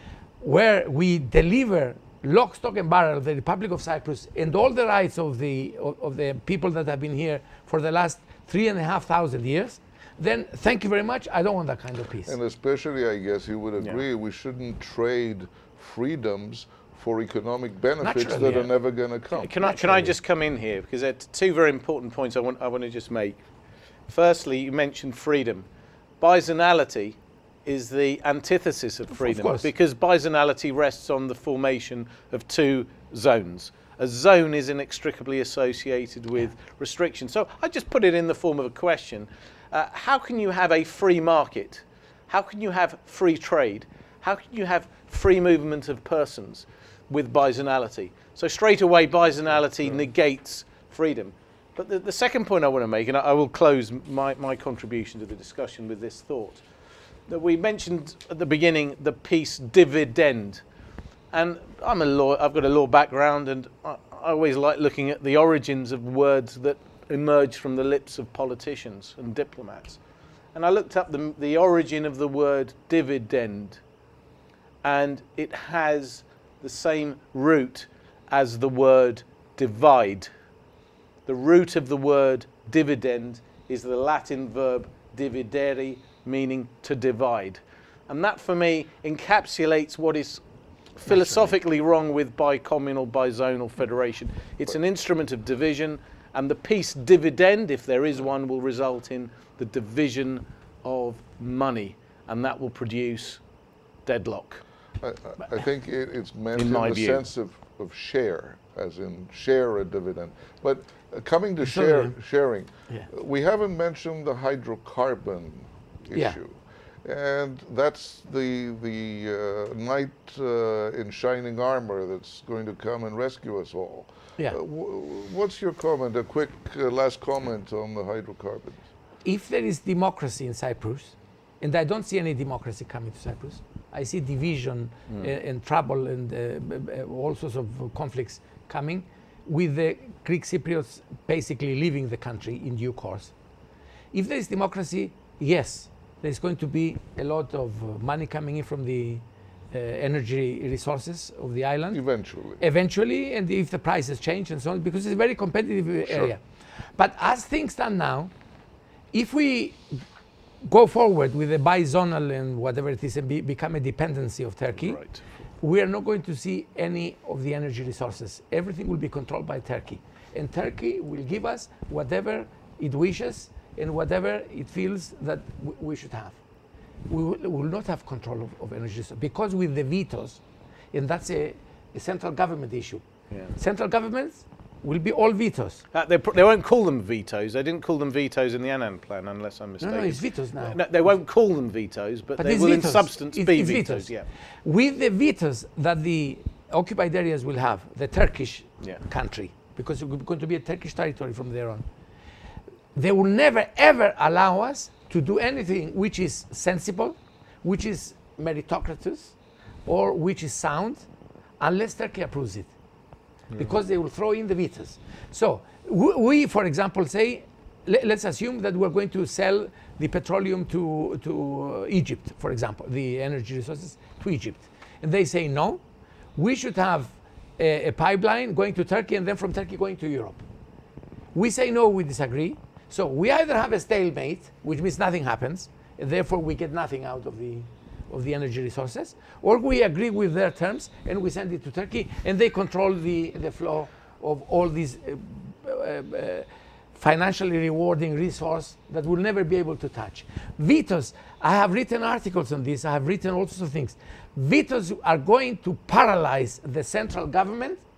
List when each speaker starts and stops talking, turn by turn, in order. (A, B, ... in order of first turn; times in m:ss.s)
0:00.4-0:12.4 A
0:12.3-0:19.5 B
0:18.0-0:18.7 A
0:19.4-0:23.4 C
0:19.6-0:20.1 A
0:24.1-0:25.7 C
0:26.2-0:56.6 C
0:29.1-0:29.7 A
0:57.3-1:00.6 C
1:01.3-1:10.0 C
1:10.6-1:13.8 C
1:14.8-1:20.3 C
1:21.3-1:30.4 C
1:31.0-1:43.4 C
1:44.1-1:44.6 C
1:45.0-2:08.8 B
1:46.6-1:47.2 C
1:51.6-1:52.2 A
2:09.2-2:23.3 A
2:24.1-2:32.0 A
2:31.9-2:32.6 B
2:32.6-2:36.4 A
2:37.0-2:38.3 A
2:39.1-2:40.0 A
2:40.6-2:45.0 A
2:44.8-2:45.2 C
2:45.6-2:56.4 A
2:57.1-3:00.4 A
3:00.9-3:03.0 A
3:03.3-3:03.6 C
3:03.6-3:05.8 A
3:05.9-3:14.3 C
3:09.8-3:10.8 A
3:12.4-3:14.1 A
3:14.6-3:21.9 A
3:23.0-3:29.4 A
3:29.9-3:31.1 A
3:31.6-3:32.7 A
3:33.6-3:45.8 A
3:46.4-3:50.4 A
3:51.3-4:17.8 A